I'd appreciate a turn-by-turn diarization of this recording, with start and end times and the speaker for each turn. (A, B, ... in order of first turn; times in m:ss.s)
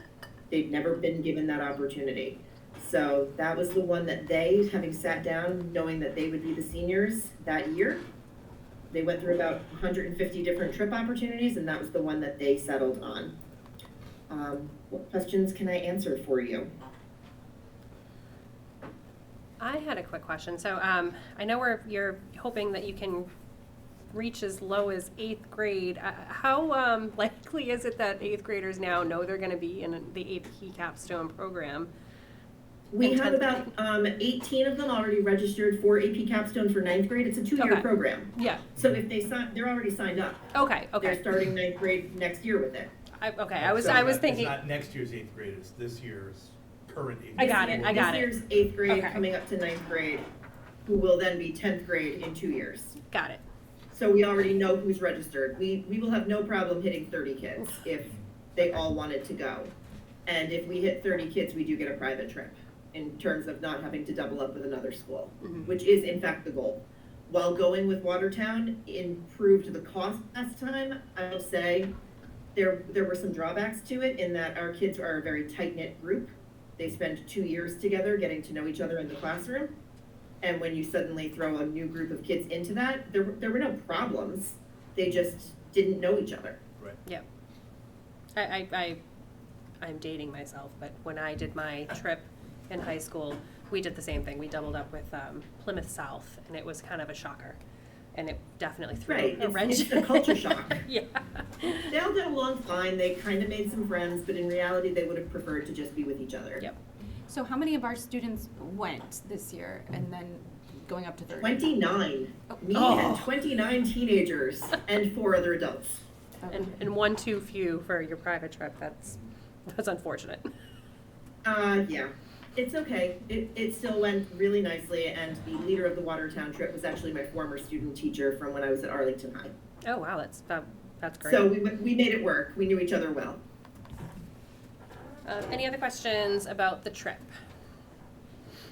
0:00.5-0:08.0 A
0:08.9-0:13.4 A
0:14.3-0:16.7 A
0:19.6-0:23.3 B
0:24.1-0:31.9 B
0:32.9-0:42.9 A
0:33.0-0:33.7 B
0:37.6-0:37.8 B
0:38.4-0:38.7 B
0:40.5-0:41.2 B
0:43.2-0:44.6 B
0:43.6-0:48.1 C
0:47.4-0:48.3 B
0:47.4-0:50.3 A
0:48.9-0:49.2 B
0:50.9-0:53.0 A
0:53.1-0:53.4 B
0:53.9-0:59.7 A
1:00.3-1:11.9 A
1:12.6-1:19.7 A
1:20.4-1:26.6 A
1:28.4-1:29.0 B
1:29.8-1:37.6 B
1:38.1-1:42.0 B
1:39.1-1:40.8 A
1:41.9-1:46.6 A
1:47.3-1:51.6 D
1:51.4-1:56.0 A
1:52.7-1:53.3 B
1:56.4-1:56.8 D
1:56.5-2:00.5 B
2:01.4-2:09.5 A
2:09.8-2:11.5 B
2:11.2-2:13.4 A
2:15.2-2:17.3 B